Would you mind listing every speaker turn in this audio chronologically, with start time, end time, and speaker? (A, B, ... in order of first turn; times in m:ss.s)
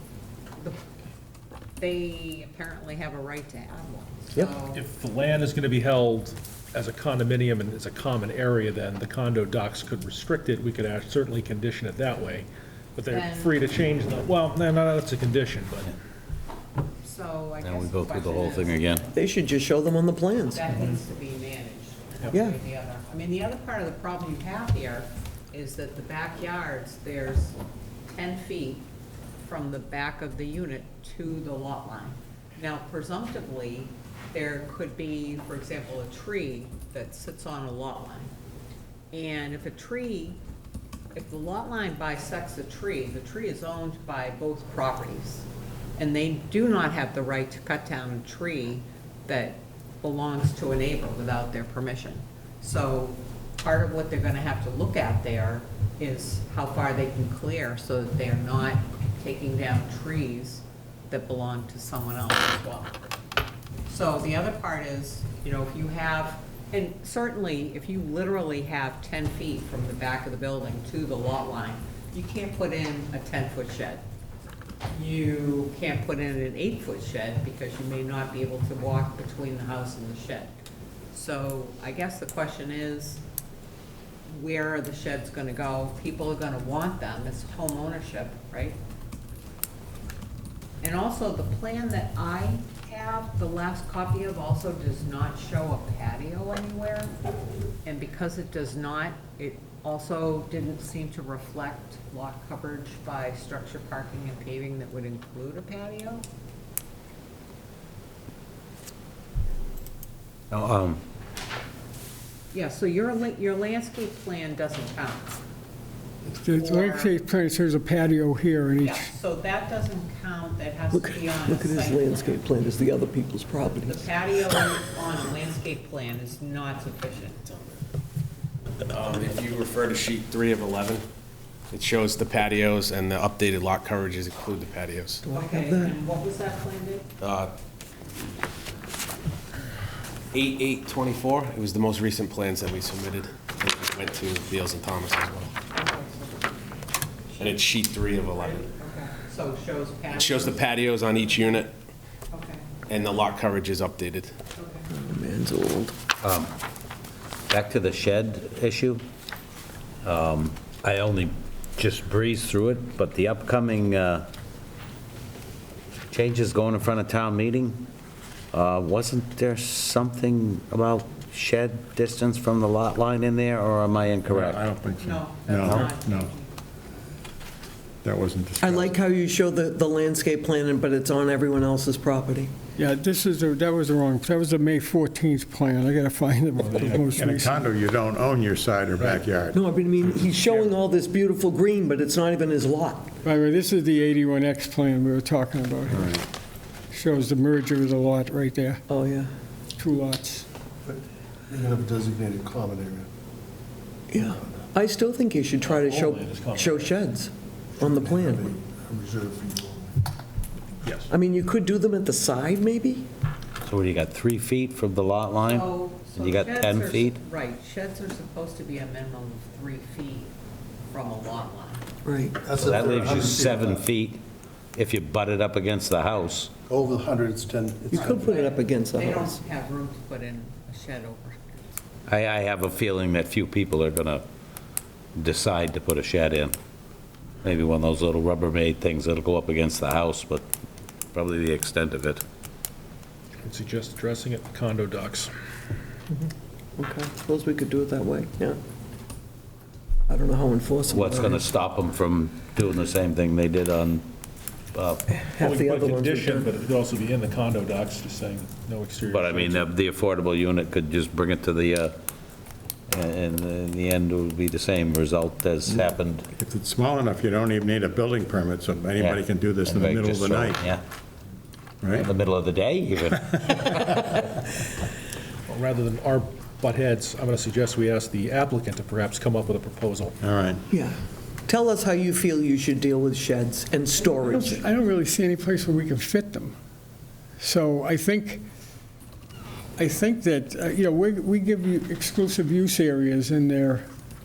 0:01.8-0:04.8 A
0:04.7-0:15.9 B
0:13.1-0:13.6 A
0:17.0-0:19.1 A
0:17.6-0:19.0 C
0:19.1-0:20.7 D
0:20.5-0:27.6 A
0:28.1-0:28.9 A
0:29.4-0:38.3 A
0:39.1-0:40.4 A
0:41.1-1:03.0 A
1:03.9-1:14.0 A
1:14.9-1:20.5 A
1:21.1-1:23.2 A
1:24.3-1:28.8 A
1:30.8-1:37.1 A
1:37.8-1:46.2 A
1:50.5-1:51.0 C
1:52.5-1:55.4 A
1:56.2-1:59.1 E
1:56.5-1:57.2 A
1:58.8-2:02.4 A
2:00.9-2:04.1 D
2:03.7-2:07.5 A
2:08.9-2:11.0 F
2:11.7-2:15.2 F
2:15.2-2:16.0 D
2:15.3-2:17.0 A
2:17.2-2:17.5 F
2:20.3-2:25.5 F
2:25.7-2:26.4 A
2:27.4-2:30.8 A
2:27.4-2:28.7 F
2:30.1-2:31.7 F
2:32.3-2:32.7 A
2:32.9-2:34.3 F
2:34.6-2:34.9 A
2:34.9-2:35.9 D
2:36.2-2:36.5 C
2:37.5-2:39.0 C
2:40.0-2:44.3 C
2:46.1-2:47.8 C
2:48.5-2:54.6 C
2:54.3-2:56.3 G
2:55.0-2:56.5 A
2:55.6-2:55.9 C
2:58.0-2:58.9 G
2:58.6-3:02.5 D
3:02.8-3:07.7 E
3:07.0-3:09.5 G
3:09.5-3:13.1 D
3:13.2-3:16.3 E
3:16.9-3:18.8 E
3:18.9-3:19.3 D
3:19.8-3:20.5 E
3:20.8-3:23.1 H
3:24.1-3:28.5 D
3:24.2-3:24.7 H
3:25.6-3:26.9 B
3:27.8-3:30.0 H
3:31.1-3:33.0 D
3:33.6-3:37.2 C
3:35.4-3:40.3 A
3:40.9-3:41.8 A
3:42.0-3:42.5 D
3:42.4-3:43.8 H
3:42.5-3:44.2 C
3:44.8-3:46.5 C
3:46.7-3:48.4 H
3:47.9-3:49.4 D
3:47.9-3:51.8 A
3:52.1-3:54.2 C
3:55.2-3:56.6 C
3:57.4-4:00.4 C
4:01.1-4:02.2 C
4:03.4-4:05.3 B
4:06.1-4:08.6 D
4:10.1-4:11.5 D
4:10.9-4:14.0 C
4:14.7-4:15.0 C
4:15.1-4:16.5 D
4:15.4-4:19.7 B
4:19.0-4:21.9 C
4:22.9-4:26.3 C
4:26.4-4:30.6 G
4:29.0-4:30.8 C
4:31.9-4:34.3 C
4:35.5-4:40.1 B
4:40.2-4:40.5 G
4:40.7-4:44.6 D
4:44.0-4:46.5 E
4:47.4-4:48.4 E
4:49.8-4:53.8 E